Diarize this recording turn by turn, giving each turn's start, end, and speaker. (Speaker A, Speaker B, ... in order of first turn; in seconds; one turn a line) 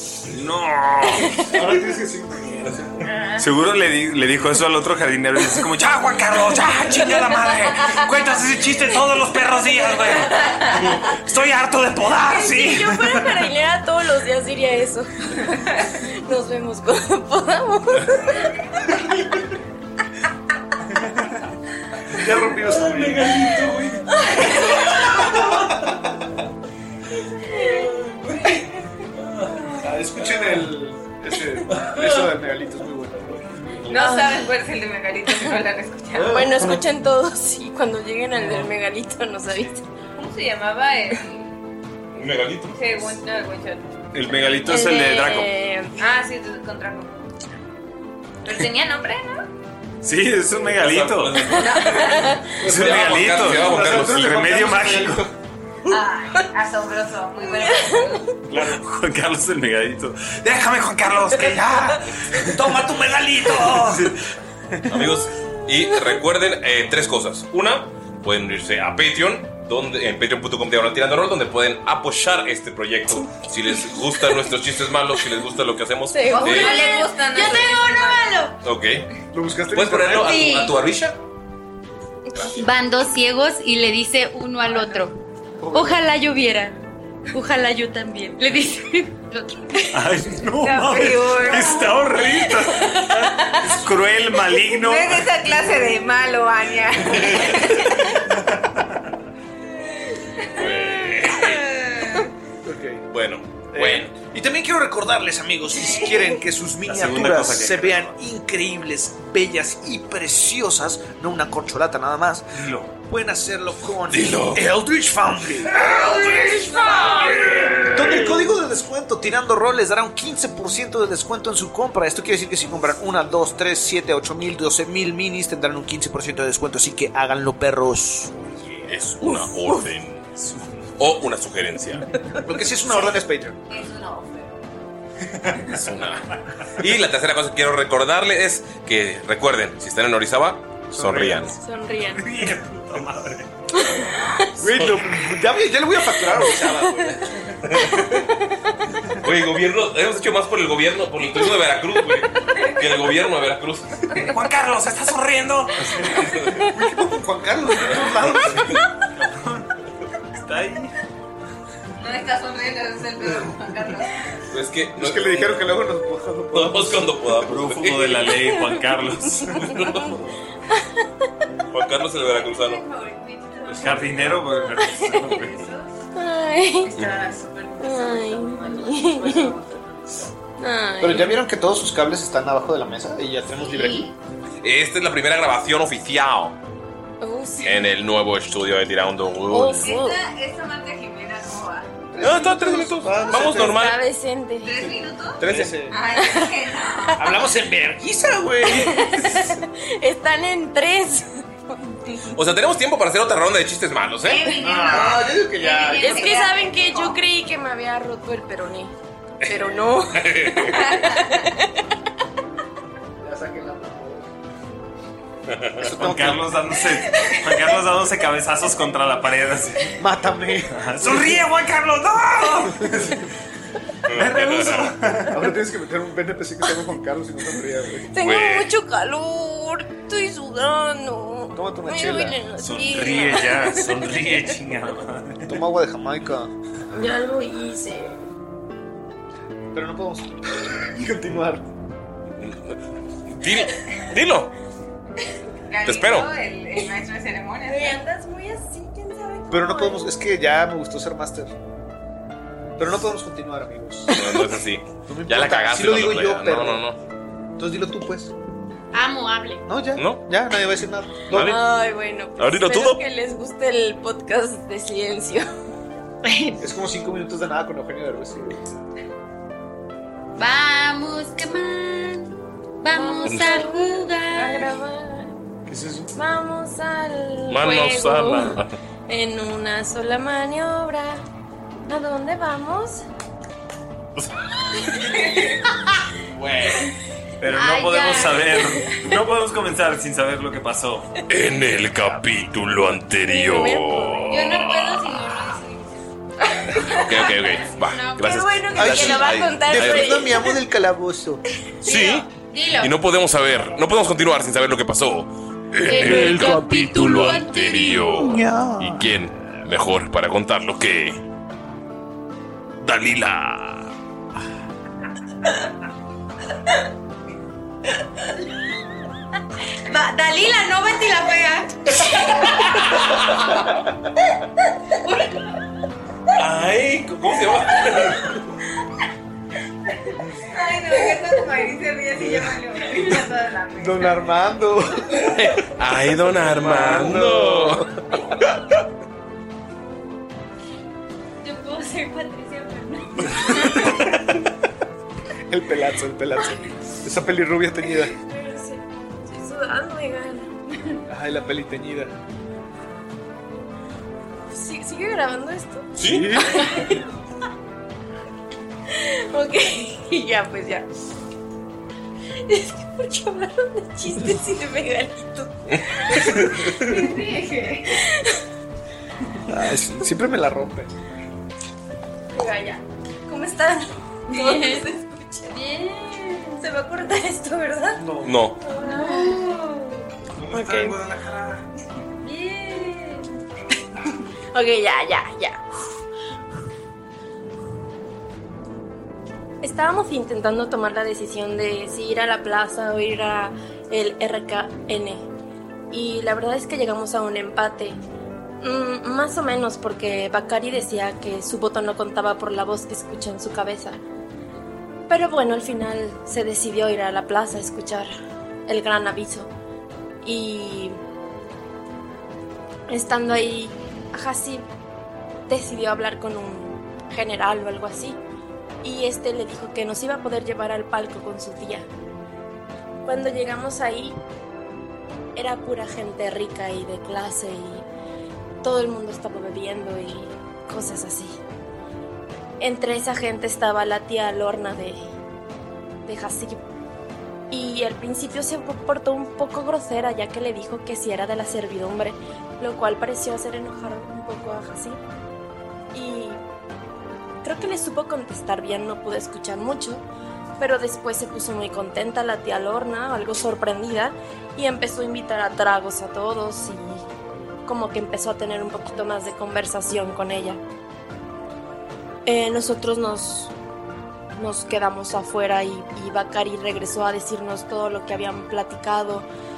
Speaker A: 0.3-1.5
Speaker B: 1.5-3.0
Speaker C: 3.0-3.4
Speaker A: 3.4-13.4
Speaker D: 12.3-18.6
Speaker B: 22.1-23.6
Speaker E: 22.8-24.1
Speaker D: 24.2-24.7
Speaker B: 25.7-26.1
Speaker D: 27.4-27.9
Speaker B: 29.8-33.5
Speaker E: 31.7-32.0
Speaker C: 33.9-36.4
Speaker D: 33.9-34.4
Speaker D: 36.2-39.8
Speaker C: 40.2-41.5
Speaker E: 42.1-42.8
Speaker C: 42.7-43.9
Speaker A: 44.1-45.5
Speaker D: 44.7-46.0
Speaker C: 46.0-47.1
Speaker C: 48.5-49.5
Speaker A: 50.0-51.6
Speaker E: 50.6-54.4
Speaker C: 51.6-52.4
Speaker D: 51.7-52.3
Speaker A: 52.6-55.3
Speaker B: 52.6-55.3
Speaker C: 55.9-58.3
Speaker D: 57.6-58.0
Speaker A: 58.5-62.8
Speaker B: 62.5-64.2
Speaker A: 63.5-65.2
Speaker E: 64.9-76.8
Speaker D: 76.2-76.6
Speaker C: 76.3-78.3
Speaker F: 76.4-78.6
Speaker E: 78.6-79.1
Speaker B: 79.3-80.5
Speaker E: 79.7-81.2
Speaker F: 82.6-85.2
Speaker B: 85.6-86.0
Speaker F: 85.7-86.8
Speaker F: 87.3-90.0
Speaker A: 89.9-95.5
Speaker C: 90.6-91.8
Speaker C: 94.8-97.9
Speaker A: 98.3-99.0
Speaker E: 100.5-101.7
Speaker C: 101.6-102.3
Speaker B: 102.6-103.0
Speaker E: 103.1-104.1
Speaker B: 103.7-115.9
Speaker A: 106.8-108.2
Speaker A: 112.5-112.9
Speaker E: 114.1-114.7
Speaker A: 117.6-118.3
Speaker B: 117.9-128.3
Speaker E: 128.9-130.3
Speaker D: 129.2-129.8
Speaker A: 130.4-130.8
Speaker E: 131.0-132.1
Speaker B: 132.4-133.6
Speaker C: 133.7-134.5
Speaker A: 135.3-135.7
Speaker E: 135.8-136.2
Speaker E: 136.8-141.6
Speaker B: 140.9-141.6
Speaker D: 141.6-142.3
Speaker A: 142.1-143.5
Speaker D: 143.8-144.5
Speaker B: 144.6-147.6
Speaker D: 146.3-147.1
Speaker E: 147.7-148.1
Speaker D: 148.0-148.2
Speaker E: 149.2-154.1
Speaker A: 154.2-156.5
Speaker B: 156.7-158.8
Speaker A: 159.2-159.7
Speaker A: 160.4-161.0
Speaker C: 162.0-164.1
Speaker E: 164.5-165.7
Speaker B: 165.0-167.2
Speaker E: 166.5-168.3
Speaker A: 167.5-169.9
Speaker D: 168.6-168.8
Speaker E: 169.7-170.1
Speaker E: 171.7-172.8
Speaker C: 172.3-174.4
Speaker A: 173.7-175.7
Speaker D: 174.9-175.3
Speaker C: 175.4-175.9
Speaker D: 176.2-176.9
Speaker C: 176.9-180.2
Speaker D: 177.8-179.5
Speaker D: 180.6-181.4
Speaker B: 181.0-184.1
Speaker C: 183.6-184.1
Speaker E: 184.6-186.6
Speaker D: 187.2-187.9
Speaker E: 187.6-189.9
Speaker D: 189.5-190.2
Speaker C: 189.8-191.9
Speaker B: 192.1-193.8
Speaker E: 192.2-194.0
Speaker D: 193.7-194.7
Speaker C: 194.6-197.2
Speaker B: 195.4-196.0
Speaker E: 195.4-195.8
Speaker D: 196.2-196.6
Speaker B: 197.2-199.3
Speaker D: 198.6-202.3
Speaker E: 202.3-204.5
Speaker C: 204.2-207.2
Speaker B: 204.6-206.5
Speaker D: 206.0-208.9
Speaker D: 209.5-211.7
Speaker E: 210.1-210.8
Speaker C: 210.8-211.2
Speaker B: 213.2-214.3
Speaker E: 215.5-215.9
Speaker B: 215.8-216.6
Speaker A: 215.9-220.0
Speaker B: 220.0-221.4
Speaker A: 220.7-223.2
Speaker E: 224.1-224.9
Speaker A: 224.1-225.5
Speaker B: 225.3-228.1
Speaker D: 228.1-234.4
Speaker E: 228.2-228.7
Speaker B: 231.5-232.4
Speaker A: 232.6-235.6
Speaker B: 235.5-236.5
Speaker D: 236.9-238.2
Speaker B: 239.7-241.7
Speaker E: 242.4-242.8
Speaker E: 243.3-244.5
Speaker C: 245.7-248.0
Speaker E: 245.8-246.3
Speaker D: 247.7-250.2
Speaker B: 249.5-251.5
Speaker B: 252.8-254.1
Speaker D: 254.1-254.6
Speaker E: 254.1-257.0
Speaker B: 255.1-256.8
Speaker B: 257.6-258.3
Speaker F: 258.9-259.6
Speaker B: 259.7-261.6
Speaker E: 260.0-260.2
Speaker E: 261.3-261.6
Speaker D: 261.4-265.5
Speaker E: 262.4-263.0
Speaker B: 266.6-268.6
Speaker F: 270.4-272.3
Speaker F: 272.8-274.7
Speaker D: 272.9-275.4
Speaker E: 273.2-273.6
Speaker B: 275.7-276.1
Speaker D: 276.1-281.2
Speaker E: 277.5-278.8
Speaker D: 281.9-283.0
Speaker E: 286.3-286.9
Speaker A: 287.4-291.1
Speaker F: 287.5-288.6
Speaker E: 291.3-294.9
Speaker A: 291.9-292.2
Speaker D: 293.2-294.5
Speaker F: 294.3-295.9
Speaker D: 296.6-297.1
Speaker E: 296.9-300.2
Speaker F: 297.6-298.4
Speaker D: 298.2-300.6
Speaker B: 298.8-301.4
Speaker E: 301.8-302.3
Speaker F: 301.9-302.9
Speaker E: 302.8-311.2
Speaker D: 305.9-307.2
Speaker F: 305.9-308.1
Speaker B: 306.2-306.6
Speaker B: 308.1-309.1
Speaker E: 312.8-313.9
Speaker F: 319.9-321.7
Speaker E: 322.8-323.5
Speaker E: 326.4-328.4
Speaker C: 330.5-334.2
Speaker B: 332.2-332.6
Speaker B: 333.8-335.2
Speaker E: 335.2-337.9
Speaker B: 336.3-337.9
Speaker F: 341.4-343.6
Speaker B: 345.5-348.1
Speaker D: 348.0-350.5
Speaker B: 351.1-352.1
Speaker D: 354.5-357.0
Speaker E: 356.0-356.5
Speaker B: 356.0-356.6
Speaker D: 358.9-360.9
Speaker D: 362.5-367.0
Speaker C: 366.8-367.7
Speaker D: 368.0-368.3
Speaker B: 369.5-370.9
Speaker D: 372.3-375.9
Speaker F: 374.4-374.8
Speaker D: 376.6-378.0
Speaker B: 378.0-378.5
Speaker E: 378.2-378.6
Speaker D: 378.6-379.6
Speaker F: 378.8-379.5
Speaker B: 380.5-380.9
Speaker D: 380.5-381.0
Speaker D: 382.2-383.2
Speaker D: 384.5-385.6
Speaker D: 389.6-395.2
Speaker D: 395.9-398.0
Speaker D: 398.6-404.0
Speaker D: 405.1-408.1
Speaker D: 408.7-409.5
Speaker D: 410.2-411.0
Speaker D: 412.9-414.6
Speaker D: 415.5-418.2
Speaker D: 418.8-421.9
Speaker D: 423.1-424.2
Speaker D: 425.4-427.9
Speaker D: 428.6-431.4
Speaker D: 432.6-435.0
Speaker D: 436.1-436.6
Speaker D: 437.5-445.0
Speaker D: 445.9-446.4
Speaker D: 447.4-450.0
Speaker D: 450.6-457.1
Speaker D: 457.7-460.6
Speaker D: 462.3-463.5
Speaker D: 464.4-469.3